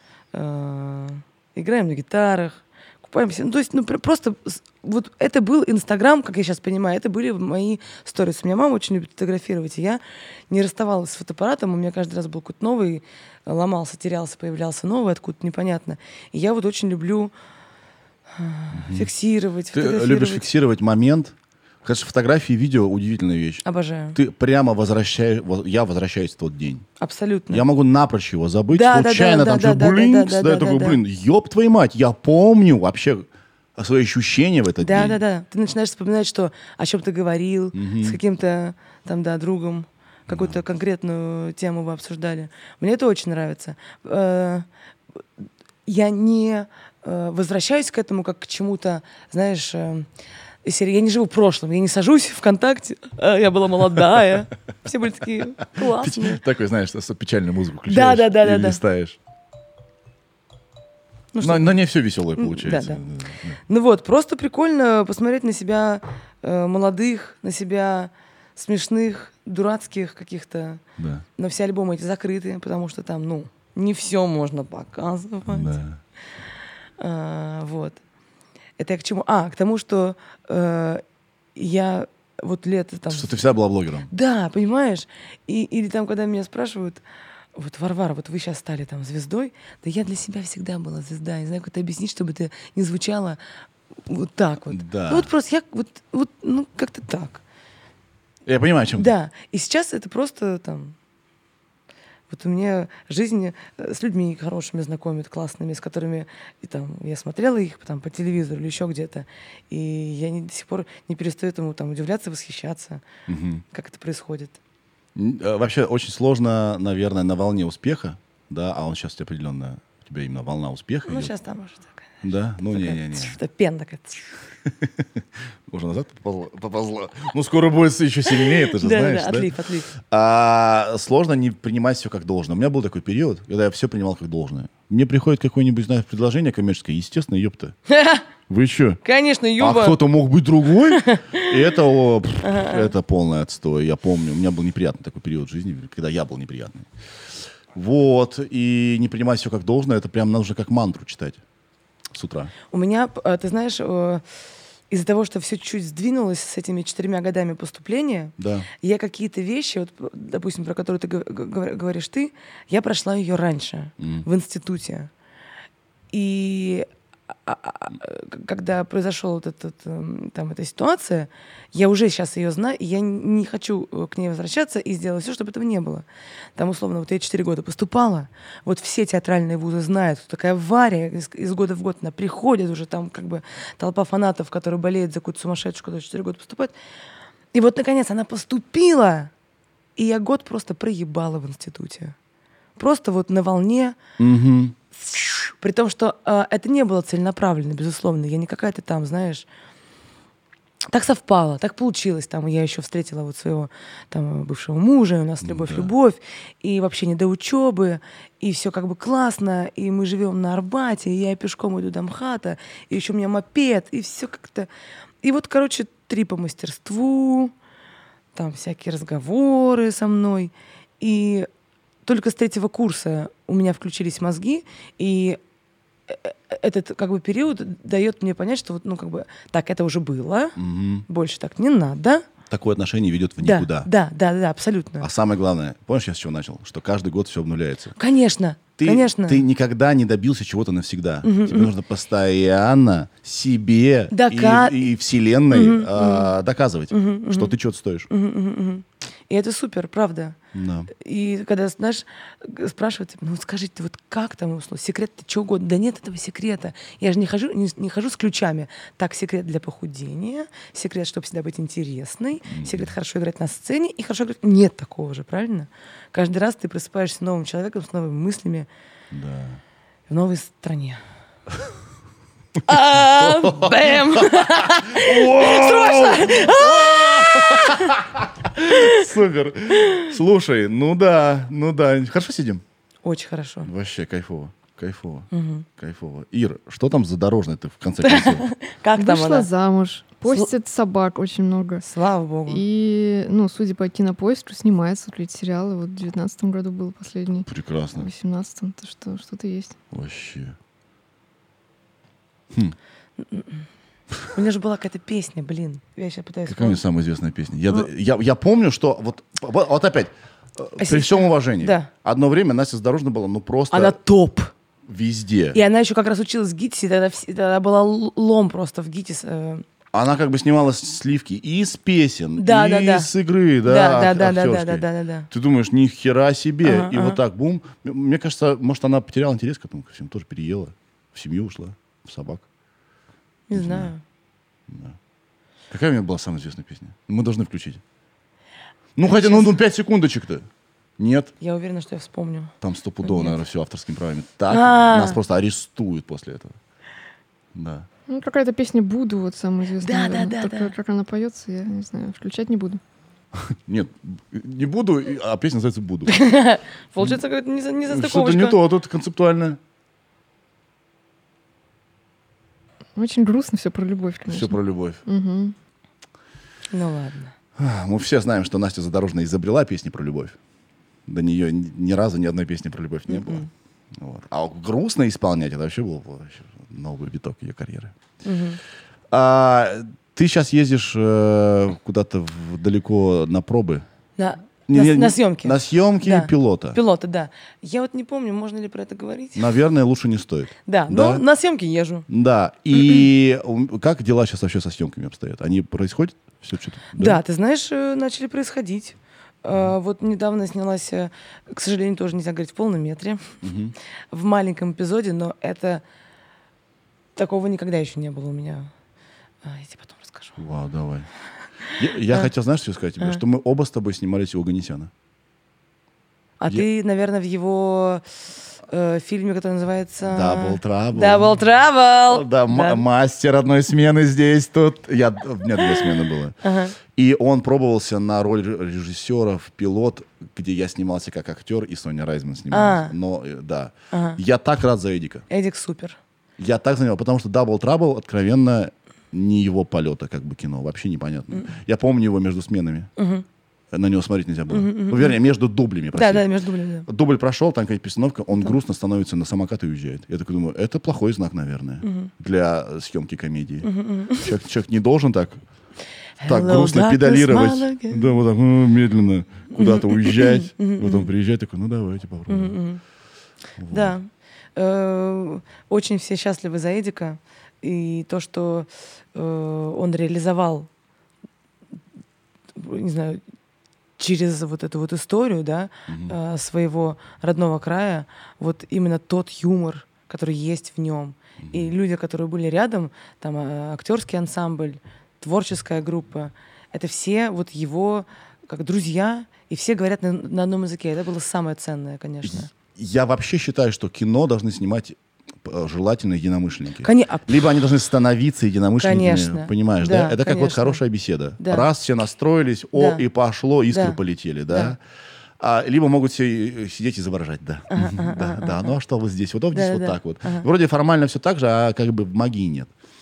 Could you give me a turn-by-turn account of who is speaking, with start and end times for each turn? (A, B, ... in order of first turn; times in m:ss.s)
0:00.3-0:17.3 A
0:18.3-0:20.5 A
0:18.7-0:19.1 B
0:19.7-0:26.8 B
0:23.6-0:24.2 A
0:27.0-0:27.6 A
0:27.5-0:35.2 B
0:28.7-0:31.0 A
0:34.8-0:44.7 A
0:37.7-0:38.2 B
0:40.3-0:40.6 B
0:45.8-0:50.1 A
0:50.6-0:56.4 A
0:55.8-0:59.2 B
0:57.9-0:58.8 A
1:01.3-1:01.8 A
1:01.4-1:03.6 B
1:02.4-1:03.0 A
1:03.7-1:10.8 A
1:11.0-1:11.2 B
1:11.4-1:15.8 A
1:15.5-1:16.0 B
1:17.0-1:18.0 A
1:18.8-1:21.0 A
1:21.5-1:23.4 A
1:23.1-1:24.1 B
1:24.1-1:27.0 A
1:27.5-1:33.4 A
1:34.1-1:37.4 A
1:34.7-1:35.3 B
1:38.4-1:39.1 B
1:39.0-1:40.9 A
1:42.3-1:53.0 A
1:53.3-1:53.6 B
1:53.7-1:54.6 A
1:55.1-2:01.3 B
2:01.0-2:02.0 A
2:02.2-2:03.4 B
2:02.6-2:04.2 A
2:04.7-2:05.1 B
2:05.7-2:17.8 B
2:08.4-2:09.9 A
2:17.9-2:18.2 A
2:18.5-2:19.0 B
2:19.0-2:20.0 A
2:19.6-2:26.9 B
2:20.9-2:21.5 A
2:22.4-2:22.9 A
2:27.7-2:31.4 B
2:32.1-2:32.5 B
2:32.7-2:34.2 A
2:34.9-2:45.1 A
2:38.4-2:38.7 B
2:44.0-2:44.2 B
2:46.1-2:46.9 A
2:47.4-2:56.0 A
2:56.6-3:06.7 A
3:07.5-3:09.3 A
3:10.0-3:12.1 A
3:12.8-3:14.0 A
3:14.2-3:14.8 B
3:15.0-3:19.5 A
3:20.9-3:34.7 A
3:25.4-3:25.9 B
3:35.2-3:37.5 A
3:38.3-3:41.5 A
3:42.0-3:45.4 A
3:46.1-3:52.2 A
3:50.6-3:51.0 B
3:52.5-3:53.9 B
3:53.4-3:55.1 A
3:55.0-3:57.9 B
3:58.0-3:59.4 A
3:58.8-4:08.1 B
4:01.2-4:01.7 A
4:04.1-4:04.8 A
4:05.5-4:06.3 A
4:06.9-4:07.6 A
4:08.1-4:10.4 A
4:10.5-4:10.9 B
4:10.9-4:28.7 A
4:22.5-4:22.9 B
4:29.1-4:29.6 B
4:30.1-4:31.0 A
4:32.6-4:38.0 A
4:32.7-4:42.6 B
4:38.6-4:39.1 A
4:39.7-4:40.1 A
4:43.0-4:43.7 A
4:43.6-4:48.4 B
4:45.3-4:45.6 A
4:48.0-4:49.5 A
4:49.0-4:51.9 C
4:51.8-4:52.6 A
4:52.5-4:57.5 C
4:57.5-4:58.1 B
4:58.0-4:59.8 C
4:59.9-5:00.6 B
5:03.2-5:03.6 A
5:04.3-5:06.8 A
5:06.4-5:14.0 B
5:10.8-5:11.9 A
5:13.7-5:14.5 A
5:14.9-5:15.6 B
5:15.5-5:19.6 A
5:19.9-5:32.4 B
5:22.4-5:23.1 A
5:23.6-5:25.3 A
5:26.6-5:27.2 A
5:33.5-5:34.0 A
5:33.5-5:33.9 B
5:34.7-5:35.0 B
5:35.7-5:37.8 B
5:39.0-5:41.3 B
5:39.0-5:39.5 A
5:41.4-5:43.4 A
5:42.6-5:46.6 B
5:44.5-5:45.2 A
5:47.5-5:47.9 B
5:48.1-5:52.8 C
5:49.8-5:50.7 A
5:53.4-5:56.2 B
5:56.1-5:58.6 A
5:57.9-5:59.6 B
6:03.0-6:05.5 C
6:04.3-6:05.0 B
6:06.7-6:07.3 A
6:07.6-6:10.4 B
6:11.1-6:13.4 B
6:13.1-6:13.5 A
6:14.0-6:17.9 B
6:18.2-6:18.6 A
6:19.1-6:23.8 B
6:24.2-6:29.5 A
6:24.7-6:26.8 B
6:29.3-6:31.2 B
6:30.6-6:32.0 A
6:32.1-6:37.2 B
6:37.0-6:43.4 A
6:43.4-6:43.7 B
6:44.1-6:45.8 A
6:47.2-6:48.7 A
6:49.4-6:50.4 A
6:50.4-6:51.1 B
6:51.7-6:52.3 A
6:51.7-6:54.9 B
6:56.4-6:58.0 A
6:58.7-7:02.8 A
7:00.0-7:01.4 B
7:02.1-7:15.2 B
7:05.5-7:06.7 A
7:12.5-7:12.9 A
7:13.9-7:14.2 A
7:15.3-7:16.0 A
7:16.4-7:22.9 B
7:23.0-7:23.2 A
7:23.7-7:26.3 B
7:24.5-7:25.2 A
7:25.9-7:26.9 A
7:26.8-7:35.4 B
7:31.8-7:32.1 A
7:33.6-7:34.3 A
7:36.2-7:38.2 A
7:36.2-7:42.6 B
7:39.5-7:41.1 A
7:42.3-7:42.8 A
7:43.6-7:44.0 B
7:43.7-7:50.7 A
7:52.5-7:53.2 A
7:54.0-8:12.5 A
7:55.9-7:56.2 B
8:01.4-8:01.7 B
8:12.2-8:24.8 B
8:16.8-8:17.3 A
8:18.8-8:20.8 A
8:21.4-8:21.7 A
8:22.7-8:23.0 A
8:23.7-8:24.0 A
8:24.5-8:24.7 A
8:25.4-8:32.7 B
8:27.7-8:28.7 A
8:29.5-8:30.4 A